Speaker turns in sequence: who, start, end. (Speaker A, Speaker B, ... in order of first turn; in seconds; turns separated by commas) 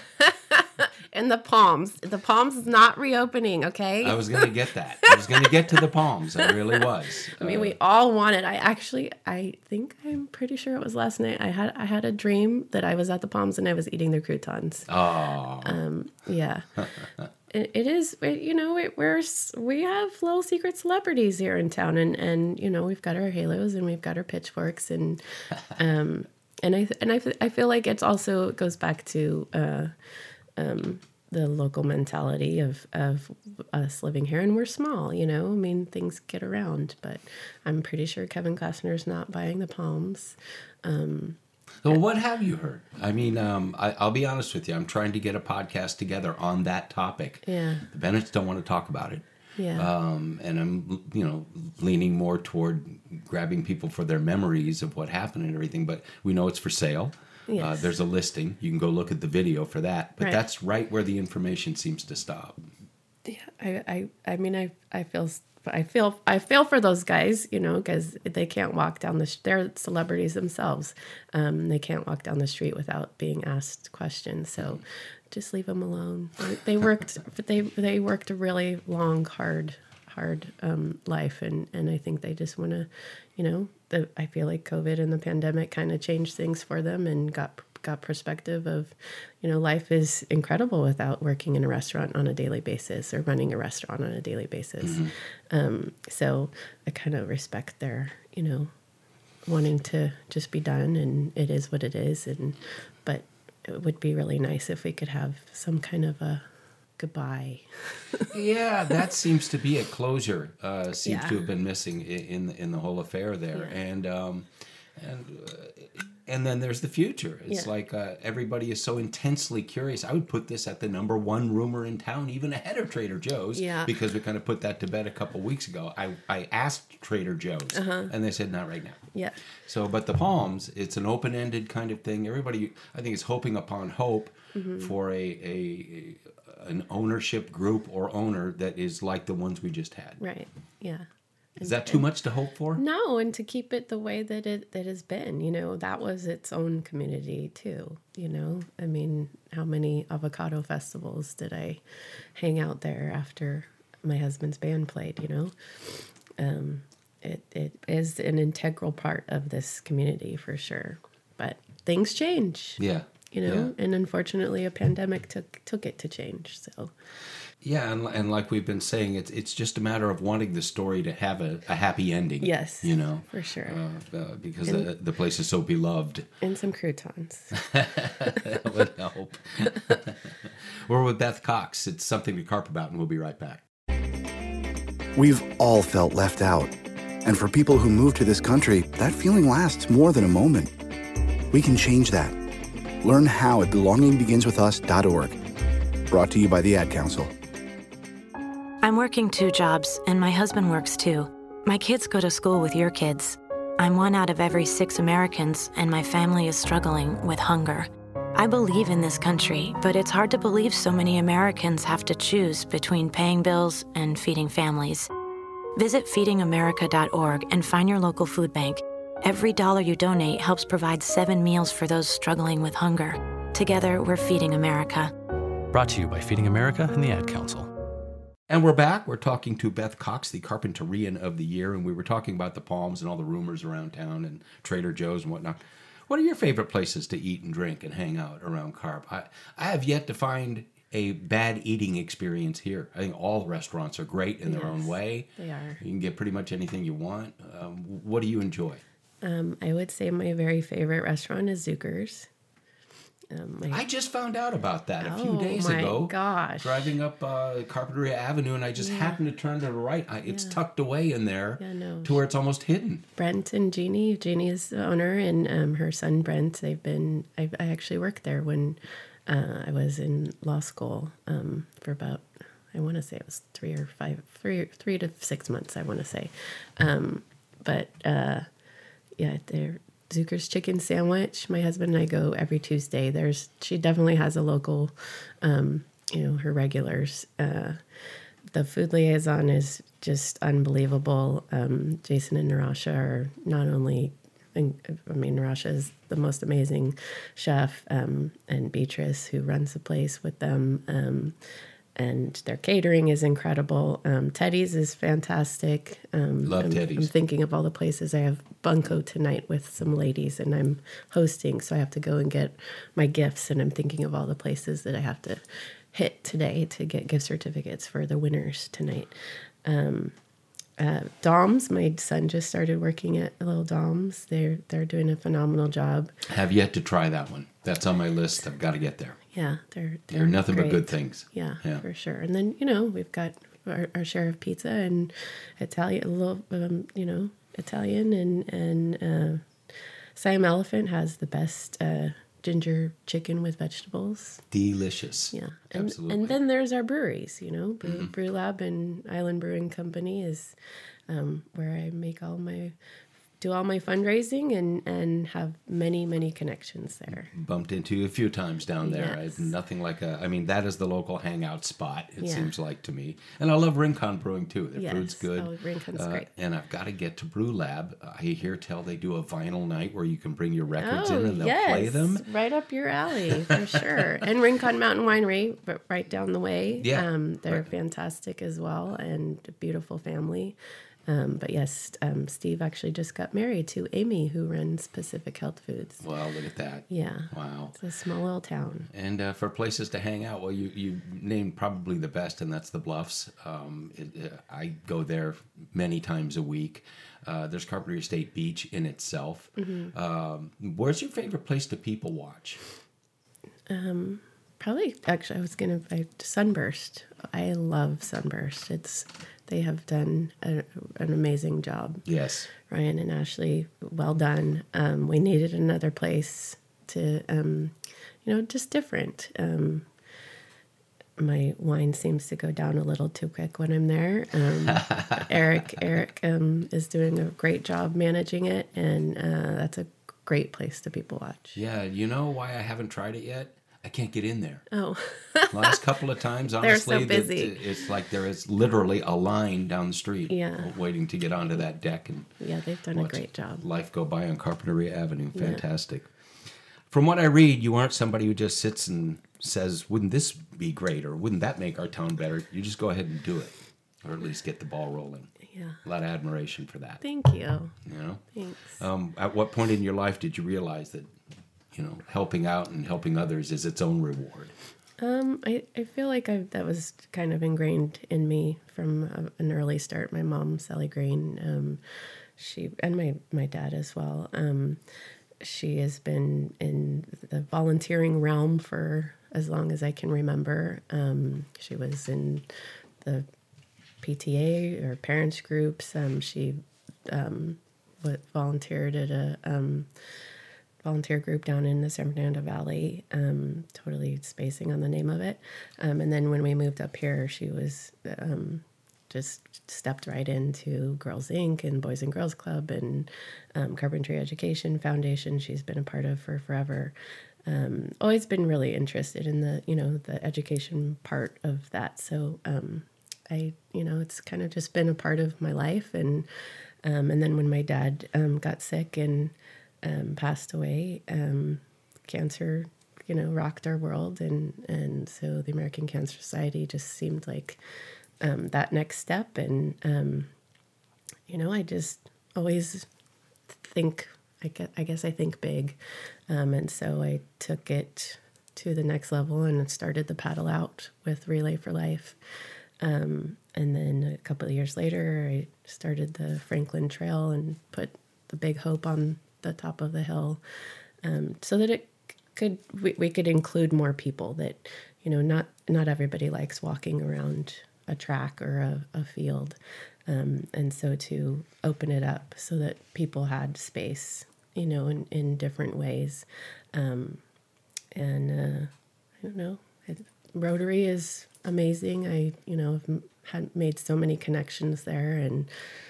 Speaker A: 0.2-4.5, Speaker B: 4.0-7.8, Speaker A: 5.0-5.5, Speaker A: 7.3-14.9, Speaker B: 14.9-15.8, Speaker A: 15.6-16.7, Speaker A: 17.5-29.9, Speaker A: 30.6-42.0, Speaker B: 41.8-49.2, Speaker A: 47.5-47.8, Speaker A: 49.6-49.9, Speaker B: 49.8-62.6, Speaker A: 57.5-57.9, Speaker A: 63.2-98.7, Speaker B: 94.8-95.1, Speaker A: 99.5-106.5, Speaker A: 107.0-108.3, Speaker B: 108.3-114.5, Speaker A: 111.0-111.4, Speaker B: 115.0-129.1, Speaker A: 123.5-123.9, Speaker A: 127.7-128.1, Speaker B: 129.6-140.2, Speaker A: 134.5-134.9, Speaker A: 140.2-141.1, Speaker A: 141.6-142.1, Speaker B: 141.6-142.8, Speaker A: 142.8-151.8, Speaker A: 152.3-166.9, Speaker B: 162.8-163.7, Speaker B: 167.6-176.3, Speaker A: 172.4-173.8, Speaker A: 176.4-177.5, Speaker B: 177.5-183.6, Speaker C: 185.2-190.7, Speaker C: 191.5-192.4, Speaker C: 193.0-195.4, Speaker C: 196.1-197.3, Speaker D: 198.8-215.1, Speaker D: 215.8-225.1, Speaker E: 225.7-227.7, Speaker B: 228.5-248.8, Speaker A: 244.5-245.8, Speaker A: 249.2-252.3, Speaker A: 253.3-253.8, Speaker B: 253.7-263.0, Speaker A: 255.0-256.9, Speaker A: 258.8-259.2, Speaker A: 260.3-260.6, Speaker A: 261.6-262.2, Speaker A: 263.2-278.5, Speaker A: 279.2-287.8, Speaker A: 288.5-301.4, Speaker A: 302.0-319.1, Speaker B: 306.4-307.1, Speaker A: 319.6-320.1, Speaker A: 320.8-326.1, Speaker B: 326.3-329.2, Speaker A: 329.3-339.4, Speaker B: 330.1-331.8, Speaker A: 340.1-344.4, Speaker B: 344.5-346.3, Speaker A: 345.3-350.6, Speaker B: 347.8-348.1, Speaker A: 351.1-352.7, Speaker A: 353.4-357.3, Speaker B: 357.3-372.2, Speaker A: 358.8-359.5, Speaker A: 362.2-362.5, Speaker A: 364.8-366.3, Speaker A: 370.8-380.6, Speaker B: 376.8-377.7, Speaker A: 381.1-386.0, Speaker B: 386.0-387.8, Speaker A: 386.9-388.9, Speaker B: 388.9-402.6, Speaker A: 399.6-399.9, Speaker A: 403.7-412.1, Speaker B: 412.1-412.5, Speaker A: 412.6-419.9, Speaker A: 421.2-431.6, Speaker B: 424.7-425.4, Speaker B: 431.6-434.7, Speaker A: 434.7-435.8, Speaker B: 435.5-442.3, Speaker A: 436.6-437.6, Speaker A: 440.3-440.7, Speaker A: 442.4-443.6, Speaker B: 442.9-446.1, Speaker A: 445.4-445.6, Speaker B: 446.9-455.3, Speaker B: 455.8-457.0, Speaker A: 457.0-457.7, Speaker B: 457.9-458.2, Speaker A: 458.3-458.8, Speaker B: 458.8-461.1, Speaker B: 461.7-464.5, Speaker A: 465.0-471.8, Speaker A: 472.4-474.8, Speaker A: 475.4-482.5, Speaker A: 483.0-483.3, Speaker A: 484.0-489.9, Speaker A: 490.8-506.9, Speaker A: 507.5-516.3, Speaker A: 516.8-527.6, Speaker A: 528.2-530.3, Speaker A: 531.3-532.9, Speaker A: 533.5-535.8, Speaker A: 536.3-542.2, Speaker A: 542.8-550.4, Speaker A: 551.0-567.2, Speaker A: 568.0-575.5